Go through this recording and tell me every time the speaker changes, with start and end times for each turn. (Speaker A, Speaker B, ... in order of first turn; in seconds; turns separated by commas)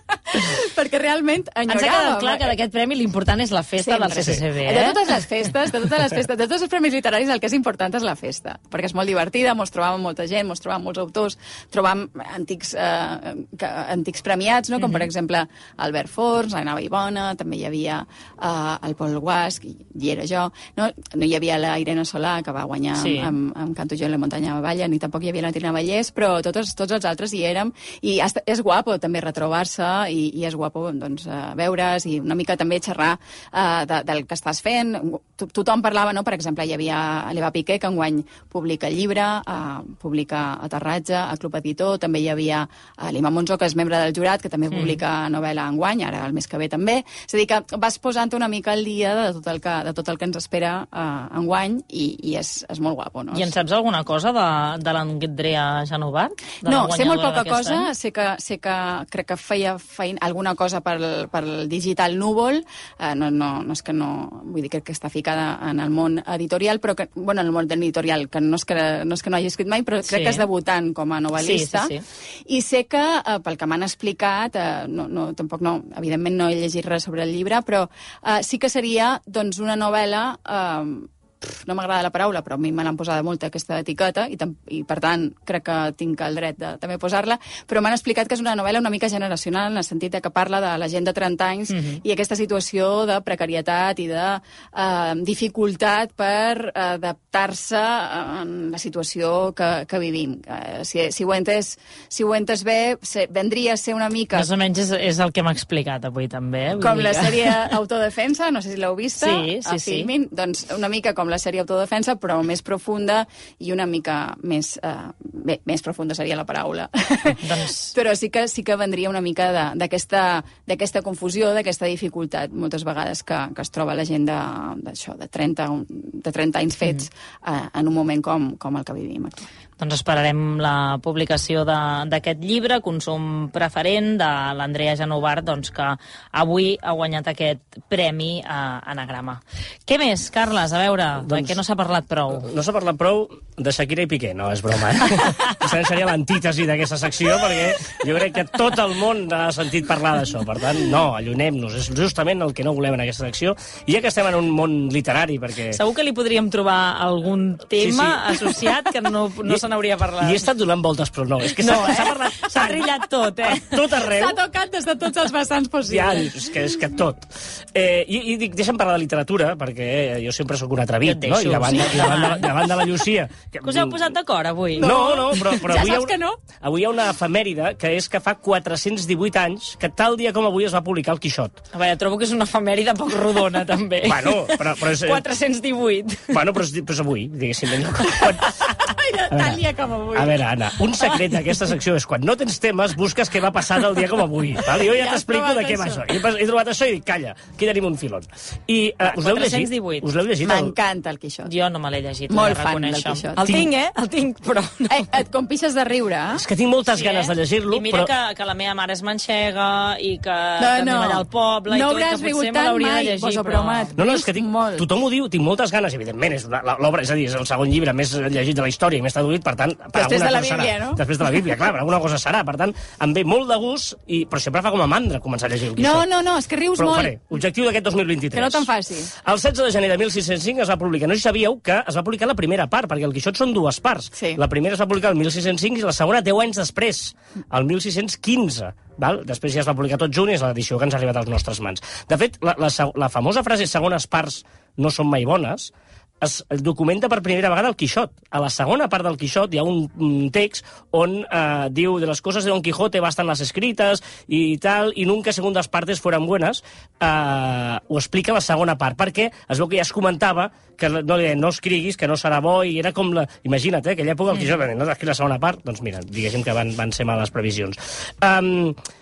Speaker A: 0.3-2.5, Speaker B: 1.7-5.0, Speaker A: 3.8-53.5, Speaker B: 14.8-15.0, Speaker B: 22.9-23.3, Speaker B: 44.7-45.0, Speaker B: 53.3-57.9, Speaker A: 56.6-71.9, Speaker B: 70.1-70.5, Speaker B: 71.4-72.0, Speaker A: 72.5-104.5, Speaker B: 91.7-92.0, Speaker B: 104.3-107.7, Speaker A: 106.8-129.4, Speaker B: 109.2-110.1, Speaker B: 117.4-117.9, Speaker B: 129.8-142.5, Speaker C: 141.2-141.6, Speaker C: 142.3-155.8, Speaker B: 155.7-160.5, Speaker C: 157.8-158.7, Speaker C: 160.2-162.8, Speaker B: 161.6-164.0, Speaker C: 163.5-164.4, Speaker A: 164.1-166.3, Speaker C: 165.8-174.1, Speaker B: 171.0-172.6, Speaker B: 173.6-174.9, Speaker C: 174.8-181.6, Speaker A: 174.8-176.4, Speaker B: 181.7-186.4, Speaker C: 184.0-185.2, Speaker C: 186.3-188.6, Speaker A: 188.8-190.3, Speaker C: 189.3-189.6, Speaker C: 190.1-200.7, Speaker A: 194.8-196.0, Speaker B: 199.1-200.1, Speaker A: 200.4-201.5, Speaker B: 201.4-205.1, Speaker A: 202.3-203.6, Speaker A: 204.9-206.4, Speaker C: 206.3-208.1, Speaker B: 206.9-214.0, Speaker A: 210.6-214.9, Speaker C: 214.0-226.0, Speaker A: 219.9-221.0, Speaker A: 225.8-227.2, Speaker C: 226.8-228.7, Speaker A: 228.3-229.1, Speaker C: 229.2-268.8, Speaker A: 234.1-234.4